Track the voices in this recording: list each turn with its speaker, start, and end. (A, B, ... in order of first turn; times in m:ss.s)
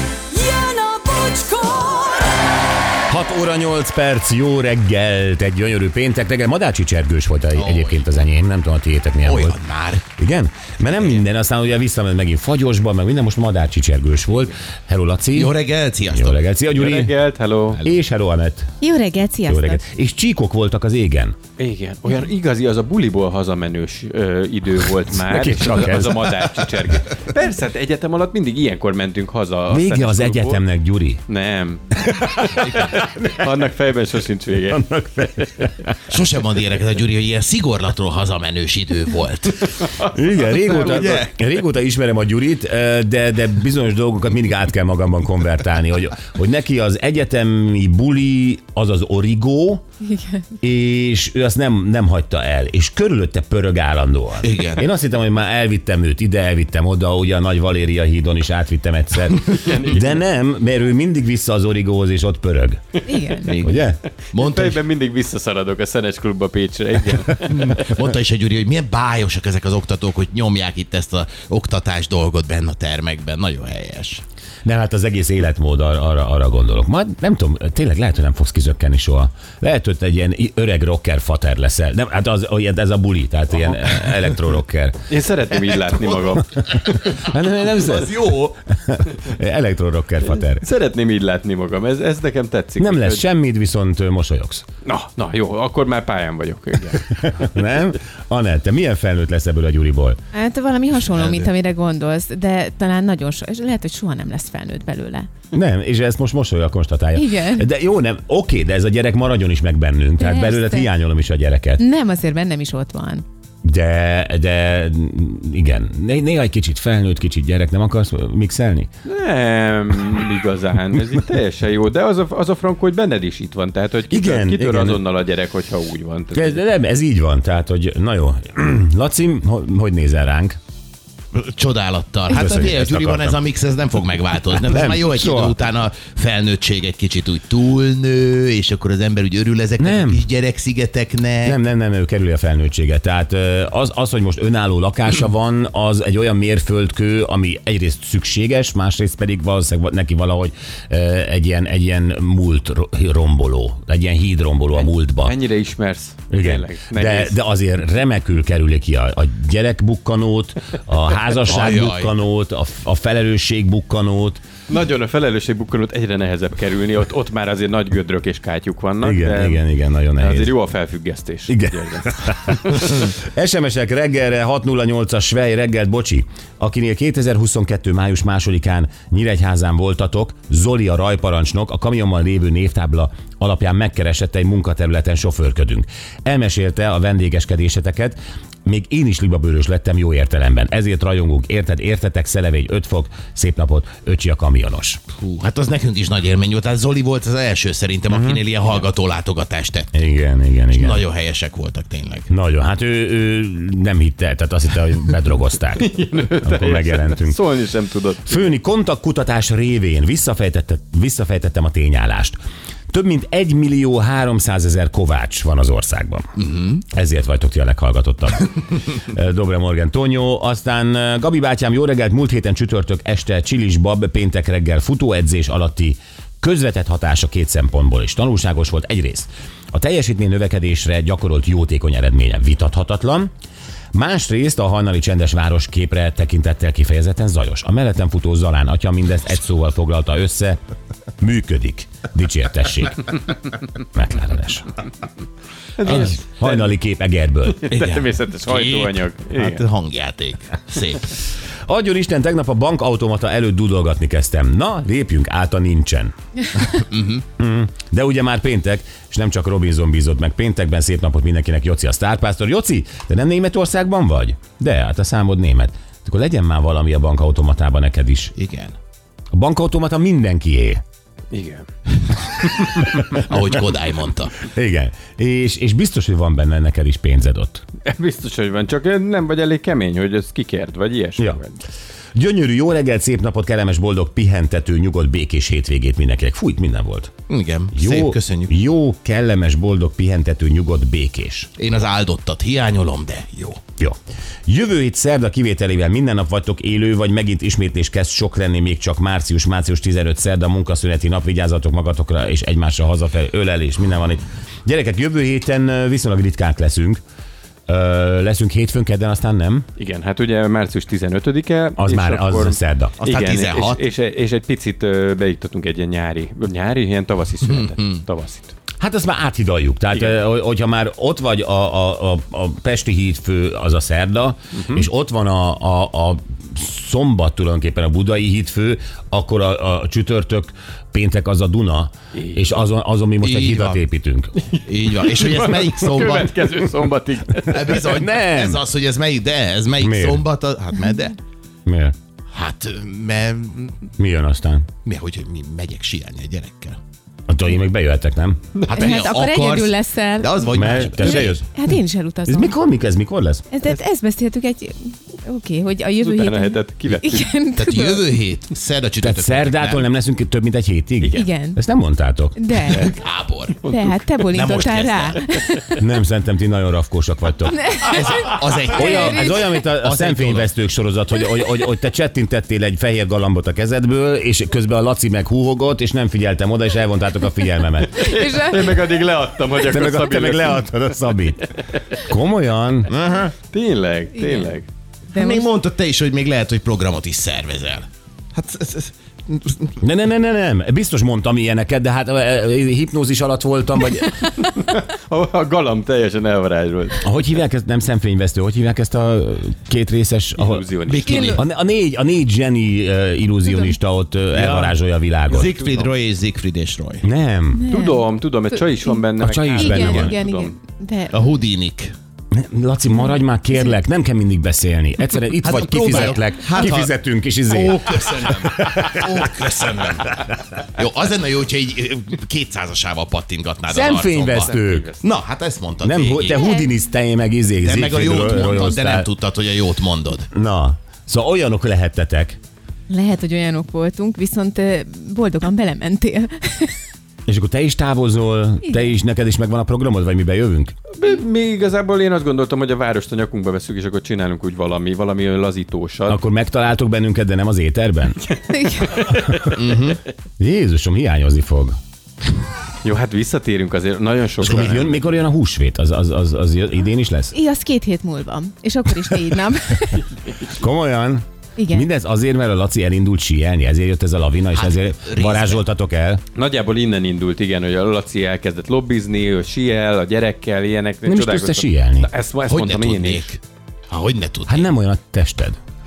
0:00.3-0:02.6 A
0:03.1-0:09.6 B
0:07.5-0:08.0 C
0:09.2-0:10.0 C
0:10.1-0:17.1 B
0:11.0-0:11.2 C
0:15.3-0:16.4 C
0:16.7-0:17.8 D
0:17.8-0:18.8 B
0:18.8-0:19.8 E
0:19.5-0:21.4 B
0:21.6-0:30.6 D
0:25.1-0:26.5 B
0:29.7-0:31.2 B
0:31.3-0:34.9 D
0:32.0-0:32.7 B
0:34.7-0:36.0 B
0:36.1-0:39.8 C
0:39.8-0:40.9 D
0:40.0-0:49.8 B
0:40.8-0:41.3 C
0:50.0-0:50.5 E
0:50.6-1:02.8 B
0:54.4-0:54.9 C
0:59.5-1:00.2 D
1:03.1-1:03.5 E
1:03.4-1:04.8 C
1:03.6-1:04.0 B
1:04.3-1:07.9 D
1:07.4-1:14.2 C
1:14.6-1:25.0 B
1:25.1-1:27.3 D
1:26.6-1:30.6 B
1:28.0-1:28.5 C
1:30.4-1:33.2 D
1:32.8-1:34.6 B
1:34.8-1:37.1 D
1:37.0-1:40.2 B
1:40.3-1:45.3 E
1:41.1-1:41.4 C
1:45.5-1:51.8 B
1:47.1-1:47.7 E
1:50.2-1:50.9 E
1:51.8-1:53.2 E
1:53.6-1:58.9 B
1:59.0-2:06.6 D
2:04.1-2:05.0 B
2:06.3-2:10.6 B
2:11.3-2:21.5 C
2:12.3-2:13.4 B
2:14.5-2:15.6 B
2:19.8-2:20.2 B
2:21.4-2:35.4 B
2:34.8-2:37.4 D
2:36.3-2:44.4 B
2:41.5-2:42.1 C
2:44.7-2:53.1 D
2:49.0-2:50.5 B
2:51.5-3:15.0 B
3:15.2-3:19.9 C
3:18.1-3:18.4 B
3:19.9-3:21.0 B
3:20.7-3:22.3 C
3:22.3-3:25.9 B
3:25.8-3:28.5 D
3:26.4-3:27.4 B
3:28.2-3:32.4 B
3:32.9-3:53.3 B
3:53.9-4:00.6 B
4:01.2-4:04.7 B
4:05.8-4:06.7 D
4:05.8-4:07.7 B
4:07.4-4:09.6 D
4:07.7-4:11.1 C
4:11.7-4:16.1 B
4:16.7-4:17.2 C
4:17.4-4:28.3 B
4:28.4-4:28.8 C
4:29.3-4:30.8 B
4:31.3-4:31.7 D
4:32.2-4:32.8 D
4:33.1-4:34.5 C
4:34.4-4:37.6 B
4:37.8-4:41.6 D
4:42.2-4:47.1 B
4:47.3-4:48.5 C
4:47.7-4:51.5 B
4:51.6-4:53.6 C
4:53.8-5:07.0 B
5:07.7-5:09.7 B
5:09.8-5:18.5 D
5:11.8-5:12.9 B
5:13.0-5:13.8 C
5:17.4-5:18.0 C
5:18.8-5:34.4 B
5:19.9-5:20.2 D
5:24.6-5:24.9 D
5:32.2-5:32.5 D
5:33.2-5:33.8 C
5:34.4-5:37.9 D
5:34.7-5:36.4 C
5:37.5-5:41.2 C
5:37.8-5:38.6 B
5:39.8-5:40.2 B
5:41.7-5:41.9 B
5:42.3-5:43.9 C
5:44.0-5:44.7 B
5:44.8-5:46.8 C
5:47.3-5:48.4 B
5:48.6-5:49.0 D
5:48.7-5:51.4 C
5:48.7-5:52.6 E
5:50.5-5:51.6 B
5:52.2-5:53.4 B
5:53.5-5:58.0 E
5:56.0-5:57.3 D
5:57.6-5:59.9 C
5:59.0-6:02.4 B
6:01.0-6:01.3 D
6:01.1-6:01.6 E
6:02.4-6:02.9 E
6:02.7-6:03.6 C
6:03.6-6:03.9 D
6:03.7-6:05.6 E
6:04.2-6:05.2 C
6:05.8-6:08.0 B
6:07.5-6:09.6 E
6:08.2-6:10.5 C
6:08.7-6:18.1 B
6:17.9-6:20.8 D
6:18.1-6:18.7 E
6:19.6-6:21.5 B
6:22.0-6:22.9 B
6:22.9-6:23.4 C
6:23.5-6:24.7 D
6:24.2-6:24.5 E
6:25.1-6:25.5 E
6:25.1-6:29.8 C
6:29.8-6:34.2 B
6:34.3-6:37.1 D
6:37.0-6:45.5 B
6:40.4-6:41.3 D
6:40.9-6:41.4 C
6:43.5-6:43.8 E
6:44.3-6:47.0 C
6:45.4-6:45.9 D
6:47.0-6:47.7 B
6:47.5-6:49.1 E
6:47.7-6:50.6 D
6:49.2-6:50.2 B
6:49.6-6:51.2 E
6:51.1-6:51.9 C
6:52.3-6:59.5 B
6:55.4-6:56.9 C
6:57.5-7:06.5 C
7:03.7-7:04.9 B
7:04.0-7:05.1 D
7:05.8-7:09.1 B
7:06.3-7:06.8 E
7:07.6-7:10.3 C
7:10.3-7:12.4 B
7:12.9-7:16.8 E
7:17.3-7:20.8 B
7:18.6-7:18.9 E
7:20.9-7:26.2 D
7:26.1-7:28.2 B
7:28.5-7:29.0 E
7:28.9-7:29.5 D
7:29.5-7:30.0 C
7:30.4-7:31.8 B
7:32.8-7:35.0 D
7:34.4-7:37.3 B
7:34.5-7:34.9 C
7:37.3-7:40.1 E
7:40.5-7:46.2 B
7:41.6-7:41.9 E
7:44.5-7:45.6 C
7:46.4-7:53.3 D
7:51.0-7:52.1 B
7:52.5-7:54.7 C
7:54.5-7:55.6 B